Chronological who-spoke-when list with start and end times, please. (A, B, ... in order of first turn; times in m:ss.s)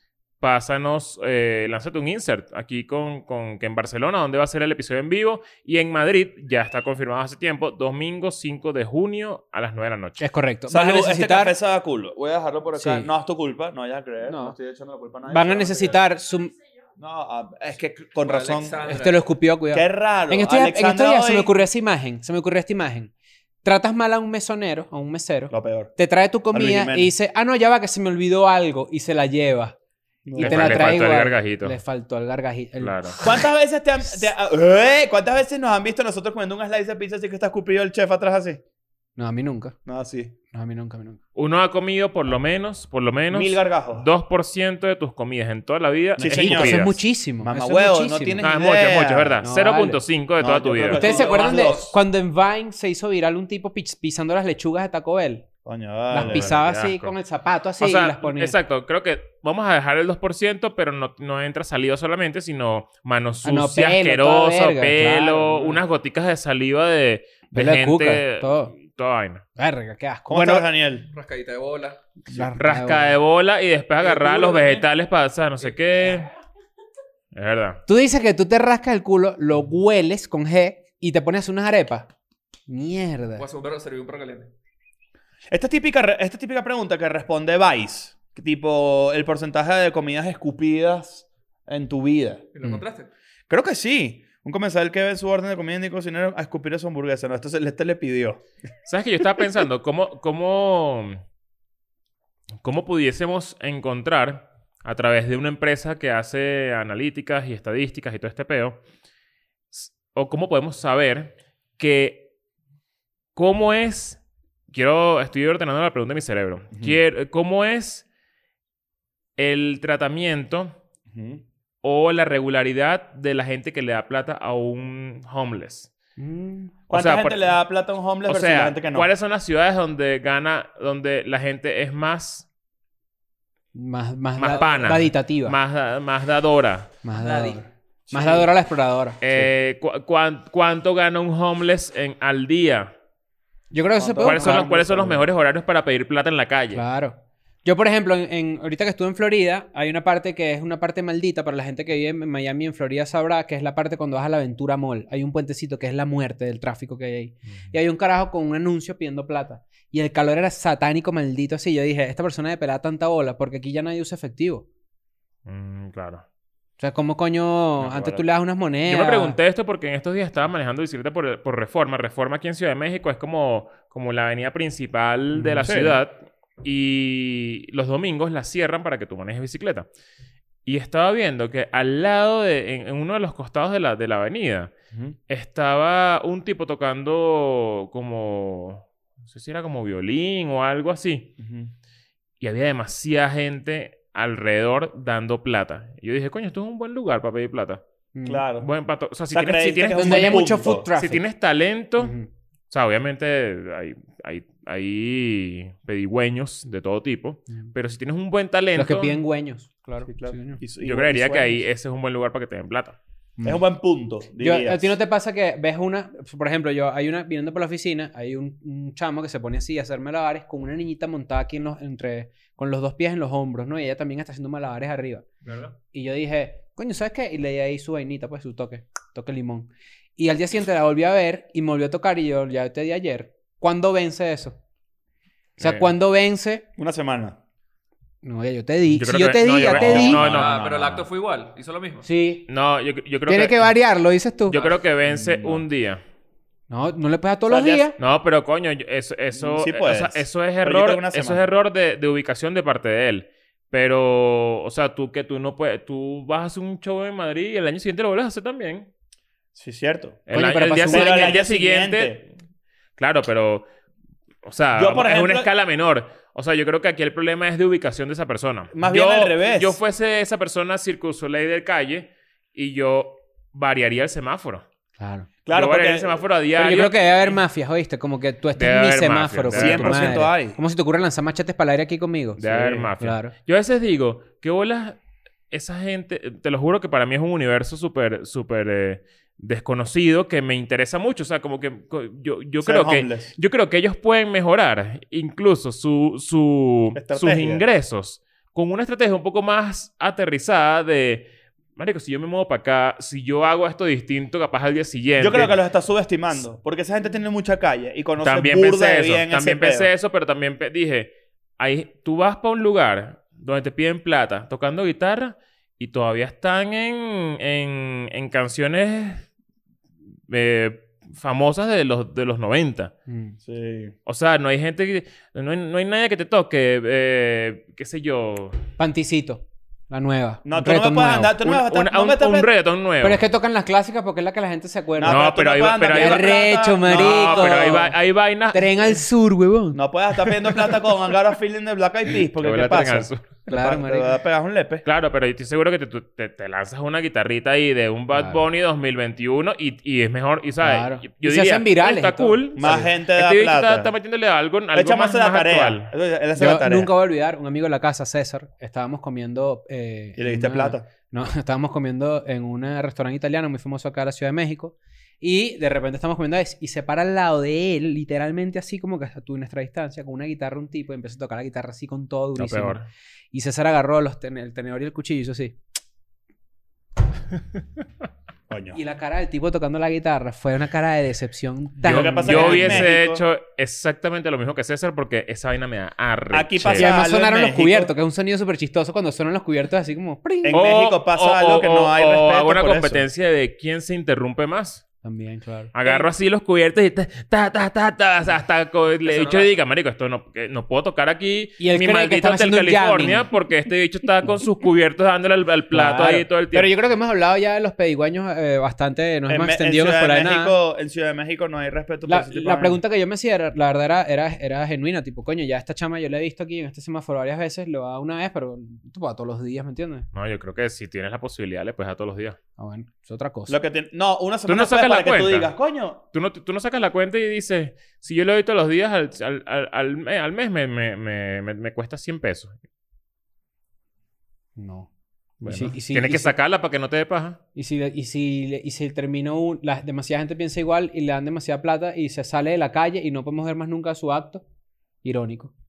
0:00.4-0:10.2 A
0:10.2-0:11.5 B
0:10.7-0:16.0 C
0:12.8-0:13.1 B
0:14.2-0:14.6 B
0:15.3-0:16.5 B
0:17.0-0:18.8 C
0:18.2-0:19.2 D
0:18.8-0:23.1 B
0:19.7-0:21.5 C
0:23.6-0:29.8 B
0:25.5-0:25.9 C
0:26.5-0:27.1 C
0:30.2-0:31.0 C
0:30.3-0:33.3 B
0:30.4-0:31.8 A
0:32.8-0:33.2 A
0:33.2-0:38.6 C
0:39.2-0:39.7 B
0:39.8-0:40.3 C
0:40.5-0:41.2 B
0:41.3-0:47.0 A
0:43.3-0:44.0 C
0:46.2-0:46.8 C
0:46.3-0:48.4 B
0:47.4-0:49.4 C
0:48.4-0:51.2 A
0:49.4-0:50.0 B
0:50.4-0:52.0 C
0:50.9-0:55.4 B
0:55.6-0:56.5 C
0:56.1-0:58.6 B
0:56.2-0:57.1 A
0:57.8-1:09.4 A
1:03.4-1:05.8 B
1:07.5-1:08.7 B
1:09.6-1:10.7 B
1:10.3-1:11.1 C
1:11.0-1:12.0 D
1:12.2-1:13.2 B
1:12.6-1:16.3 A
1:14.0-1:14.8 D
1:15.6-1:16.3 D
1:17.3-1:17.8 A
1:17.9-1:22.1 B
1:22.7-1:23.4 B
1:23.4-1:24.5 D
1:25.5-1:32.5 C
1:32.5-1:33.1 D
1:33.5-1:38.4 C
1:38.8-1:41.2 A
1:42.6-1:48.8 A
1:49.7-1:52.3 A
1:53.3-1:58.0 A
1:56.7-1:57.0 C
1:59.4-2:00.8 A
2:01.1-2:01.4 C
2:01.8-2:05.9 A
2:06.2-2:06.7 B
2:06.9-2:09.1 C
2:06.9-2:07.5 A
2:08.3-2:12.5 A
2:13.7-2:15.6 B
2:14.4-2:16.9 A
2:17.0-2:19.5 B
2:17.2-2:17.6 D
2:18.1-2:18.5 C
2:19.2-2:22.9 A
2:23.7-2:24.7 B
2:24.0-2:25.2 C
2:24.2-2:26.8 A
2:26.7-2:44.6 B
2:45.4-2:46.2 A
2:46.8-2:49.4 B
2:47.8-2:48.2 C
2:48.8-2:59.9 A
2:55.3-2:55.7 B
2:55.6-2:56.0 C
3:00.6-3:04.7 A
3:05.3-3:11.3 A
3:11.4-3:11.7 C
3:12.4-3:17.8 A
3:18.1-3:18.4 B
3:18.2-3:18.7 C
3:18.6-3:22.1 A
3:19.3-3:20.9 C
3:20.0-3:21.2 B
3:22.0-3:22.3 B
3:22.7-3:29.2 A
3:28.8-3:30.6 B
3:30.1-3:31.6 C
3:30.8-3:33.0 A
3:33.4-3:33.6 B
3:33.4-3:34.9 C
3:34.4-3:45.2 B
3:45.4-3:45.7 D
3:45.9-3:54.6 B
3:55.6-3:56.6 B
3:55.6-3:55.9 A
3:56.8-3:57.4 C
3:58.2-4:00.2 B
3:58.9-4:01.0 A
3:59.7-4:00.6 C
3:59.8-4:02.1 D
4:02.0-4:02.4 B
4:02.5-4:03.7 A
4:03.3-4:04.6 B
4:04.5-4:06.0 A
4:05.1-4:05.6 C
4:06.7-4:08.0 B
4:07.5-4:07.9 C
4:08.0-4:18.9 A
4:09.3-4:11.4 C
4:19.5-4:20.2 C
4:20.3-4:22.2 A
4:20.3-4:21.4 B
4:20.9-4:22.2 C
4:23.0-4:23.6 A
4:24.4-4:34.6 A
4:24.7-4:25.5 C
4:28.7-4:29.8 C
4:35.0-4:35.3 B
4:35.4-4:36.2 C
4:35.5-4:37.4 A
4:36.6-4:42.4 B
4:38.6-4:40.2 A
4:39.5-4:40.6 C
4:42.4-4:45.0 A
4:42.4-4:42.9 C
4:43.0-4:43.3 B
4:45.5-5:05.6 A
4:52.6-4:53.3 C
4:56.9-4:57.6 C
5:05.2-5:09.9 C
5:08.2-5:19.2 A
5:20.3-5:22.9 A
5:23.1-5:23.4 B
5:23.4-5:23.9 C
5:24.0-5:28.6 A
5:28.8-5:31.4 B
5:30.4-5:32.5 C
5:31.4-5:33.2 A
5:33.0-5:35.2 B
5:35.0-5:37.8 C
5:35.0-5:39.0 A
5:35.9-5:37.9 B
5:38.5-5:39.8 B
5:39.7-5:44.8 C
5:42.4-5:43.3 A
5:43.5-5:44.1 B
5:44.8-5:55.9 A
5:48.1-5:48.4 B
5:50.6-5:52.9 B
5:52.6-5:53.9 C
5:54.7-5:56.9 C
5:56.4-6:12.8 B
6:00.2-6:00.9 C
6:12.4-6:12.9 A
6:13.3-6:15.6 B
6:18.5-6:18.8 C
6:18.7-6:22.9 B
6:21.8-6:26.9 A
6:21.8-6:23.2 C
6:26.3-6:27.9 C
6:26.7-6:30.6 B
6:30.4-6:33.0 C
6:30.5-6:34.8 A
6:35.0-6:36.0 B
6:35.7-6:46.7 A
6:39.1-6:39.4 D
6:41.6-6:43.3 B
6:45.7-6:50.5 B
6:49.3-6:52.8 C
6:52.1-7:00.1 B
7:00.1-7:02.4 A
7:02.6-7:03.6 B
7:03.5-7:06.0 C
7:04.5-7:05.5 A
7:06.1-7:12.6 A
7:14.6-7:14.9 B
7:15.4-7:17.4 A
7:15.4-7:16.3 B
7:17.5-7:24.4 B
7:25.0-7:25.5 B